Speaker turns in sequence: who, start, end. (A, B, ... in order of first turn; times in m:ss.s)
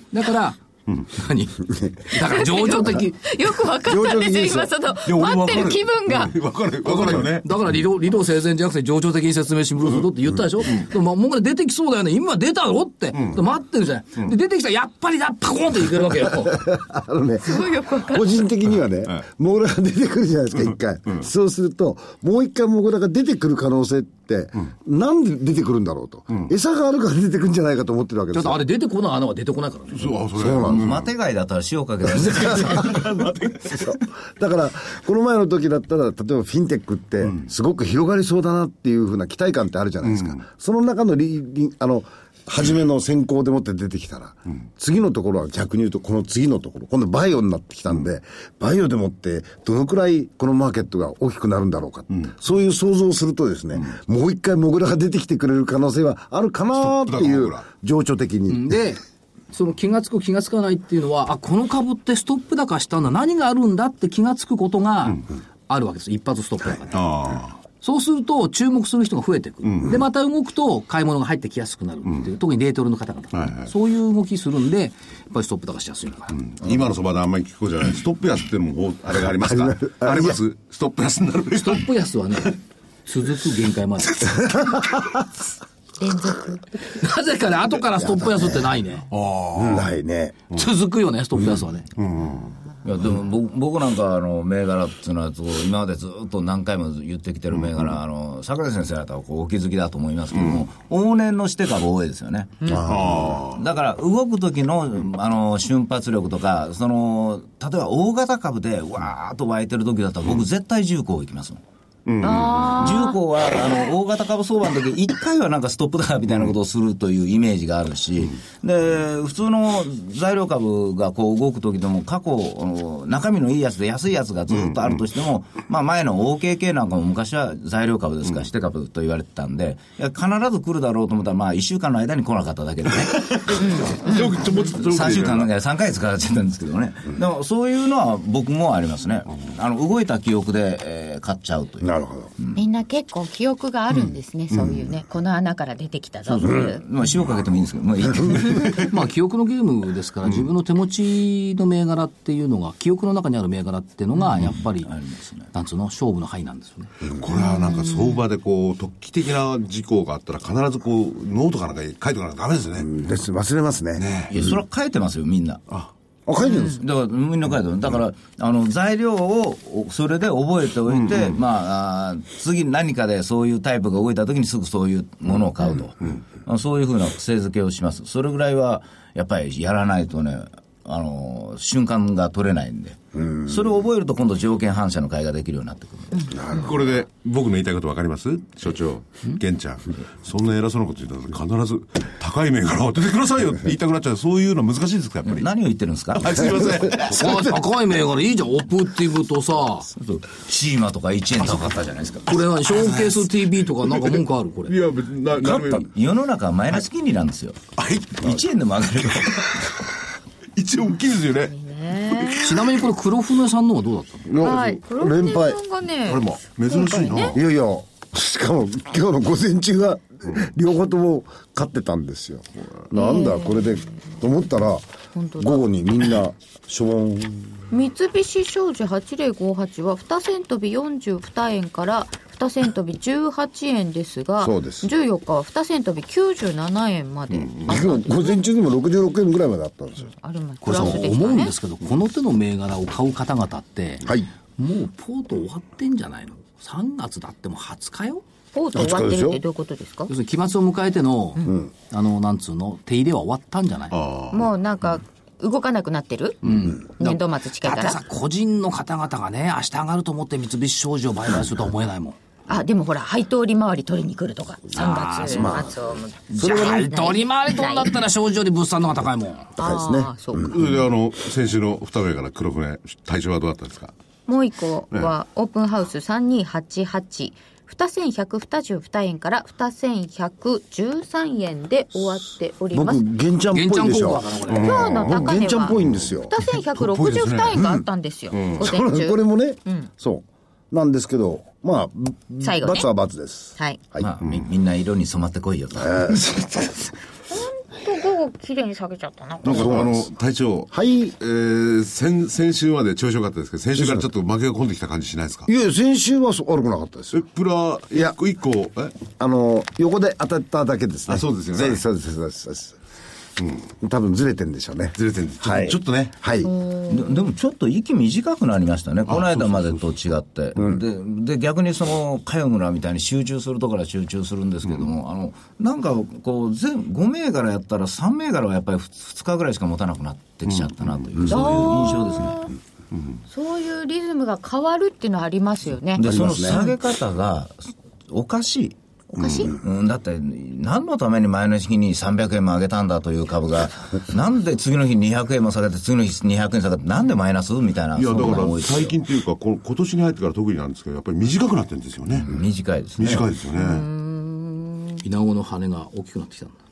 0:00.1-0:03.2 A
0:02.2-0:06.4 B
0:03.8-0:04.7 C
0:05.1-0:07.5 D
0:06.8-0:16.7 A
0:16.4-0:28.6 C
0:17.4-0:18.4 B
0:28.3-0:30.2 A
0:29.9-0:31.1 D
0:30.3-0:31.0 C
0:30.7-0:33.2 E
0:32.4-0:33.0 C
0:32.9-0:33.5 D
0:33.6-0:58.7 C
0:56.8-0:57.6 D
0:58.5-0:59.0 A
0:59.5-1:07.0 A
1:06.9-1:07.6 D
1:07.8-1:16.4 A
1:09.6-1:10.0 D
1:13.3-1:13.7 D
1:16.4-1:21.8 D
1:19.4-1:20.4 C
1:21.6-1:24.6 A
1:26.0-1:26.8 B
1:26.8-1:29.1 A
1:28.0-1:28.6 C
1:29.1-1:29.9 D
1:29.6-1:30.4 C
1:30.5-1:31.9 A
1:31.9-1:32.5 D
1:32.8-1:43.0 E
1:37.6-1:37.8 D
1:42.8-1:43.6 D
1:43.6-1:51.6 E
1:52.1-1:52.8 D
1:52.2-1:53.2 B
1:52.8-2:22.6 E
2:13.0-2:15.5 D
2:21.8-2:22.3 C
2:22.6-2:26.8 B
2:26.2-2:28.9 E
2:28.8-2:34.9 A
2:34.8-2:35.5 E
2:35.5-2:37.0 A
2:37.1-2:42.9 D
2:37.3-2:38.1 B
2:42.8-2:44.0 C
2:44.0-2:44.4 D
2:44.3-2:45.6 E
2:46.3-2:46.8 C
2:46.4-2:46.8 B
2:46.6-3:06.4 E
2:51.0-2:51.3 D
3:03.2-3:03.5 C
3:06.3-3:06.8 C
3:06.5-3:15.5 D
3:15.2-3:16.5 E
3:16.2-3:17.6 D
3:17.0-3:19.9 A
3:19.9-3:22.8 E
3:22.3-3:24.8 A
3:24.0-3:25.9 D
3:25.4-3:27.7 E
3:27.8-3:28.4 D
3:28.2-3:29.7 E
3:30.6-3:31.5 D
3:31.5-3:32.6 B
3:32.4-3:34.3 A
3:34.3-3:35.6 C
3:34.4-3:37.4 B
3:36.0-3:37.4 D
3:37.2-3:47.7 C
3:42.9-3:43.8 B
3:45.2-3:45.7 B
3:47.7-3:58.4 B
3:54.4-3:54.9 C
3:57.4-3:57.7 D
3:57.7-4:00.1 C
4:00.2-4:01.5 B
4:00.6-4:08.2 A
4:00.7-4:01.0 C
4:08.5-4:10.1 B
4:08.7-4:09.4 C
4:10.1-4:14.0 A
4:13.9-4:14.5 D
4:14.3-4:18.0 B
4:16.4-4:22.2 A
4:22.5-4:28.0 B
4:24.7-4:25.6 A
4:25.3-4:25.8 C
4:26.3-4:29.6 A
4:26.4-4:26.8 C
4:29.6-4:30.6 B
4:29.6-4:30.6 C
4:30.4-4:33.9 D
4:34.3-4:43.1 B
4:42.7-4:46.3 C
4:43.5-4:44.8 A
4:44.5-4:47.6 D
4:44.5-4:45.8 B
4:46.3-4:49.9 B
4:47.6-4:47.9 C
4:48.3-4:48.7 D
4:48.6-4:54.1 C
4:52.4-4:52.9 B
4:54.0-4:56.2 E
4:55.8-4:56.8 C
4:57.3-4:59.8 B
4:59.4-5:05.5 D
4:59.5-5:00.1 C
5:00.7-5:01.2 C
5:05.5-5:07.2 C
5:07.1-5:09.0 D
5:09.2-5:12.8 C
5:11.1-5:11.8 D
5:13.4-5:13.6 D
5:13.8-5:16.5 C
5:15.0-5:16.2 D
5:16.4-5:17.3 B
5:16.9-5:32.5 E
5:19.1-5:19.7 D
5:31.2-5:31.6 C
5:31.3-5:32.5 B
5:32.9-5:33.2 D
5:33.3-5:36.8 B
5:36.0-5:38.8 E
5:36.0-5:36.6 C
5:39.1-5:39.6 B
5:39.2-5:39.5 D
5:39.5-5:49.0 E
5:48.0-5:52.3 D
5:52.3-5:53.3 E
5:53.0-5:53.9 D
5:53.5-5:55.0 B
5:55.0-5:56.6 A